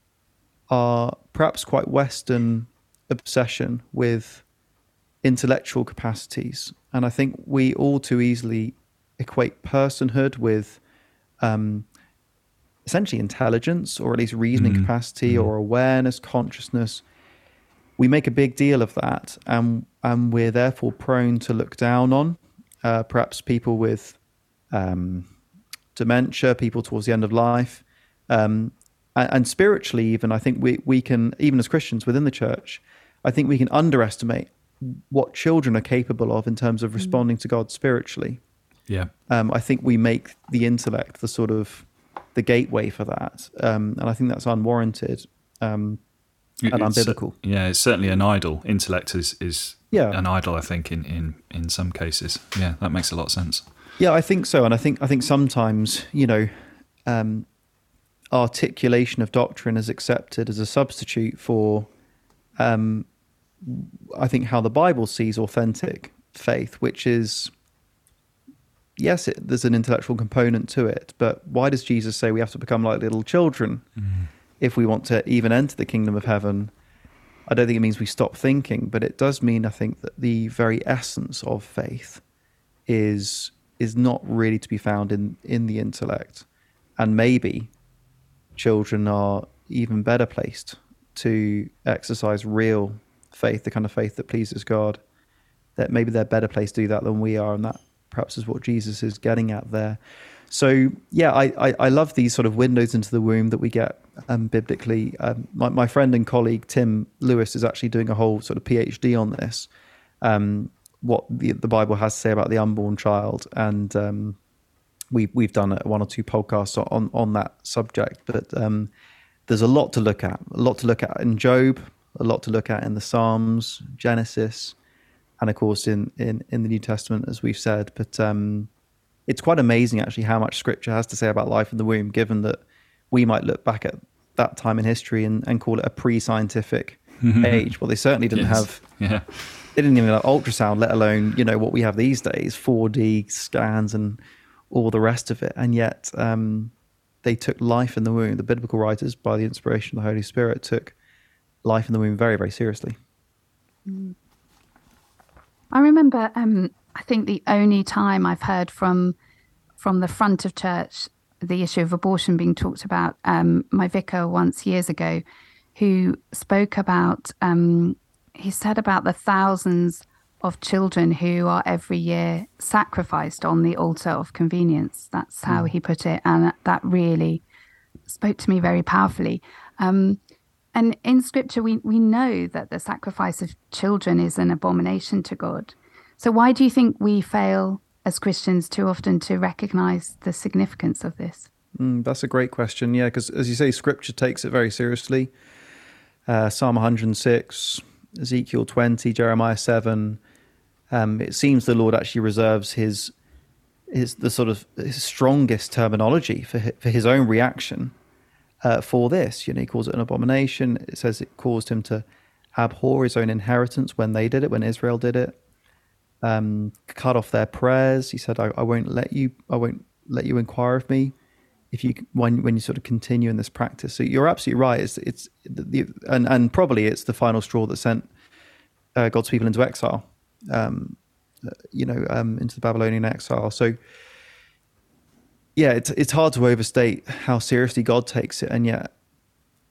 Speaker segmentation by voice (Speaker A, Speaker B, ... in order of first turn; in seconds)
Speaker A: 0.7-4.4, 5.2-10.8, 11.4-11.9, 12.9-17.0, 18.0-24.2, 24.7-25.3, 25.9-38.4, 39.3-46.0, 46.7-47.4, 49.9-50.2, 54.0-56.5, 57.1-57.5, 58.3-61.9, 62.6-63.1, 63.6-67.5, 69.0-73.9, 74.6-76.7, 77.5-82.2, 82.9-86.5, 87.0-87.7, 88.6-95.0, 95.8-109.7, 110.2-114.4, 115.1-118.9, 119.5-124.8, 125.4-128.7, 129.3-139.0, 139.8-144.2, 144.7-150.9, 151.6-153.0, 191.8-195.3, 196.3-200.2, 200.9-203.1, 203.9-207.9, 208.6-215.4, 216.2-221.1, 221.7-228.1, 229.0-233.8, 235.6-238.9
Speaker B: 14.5-15.5, 46.6-53.7, 74.0-74.3, 137.2-137.7, 138.3-139.7
Speaker C: 153.9-154.2, 155.7-159.2, 159.8-165.2, 165.8-177.4, 178.1-180.2, 180.7-191.5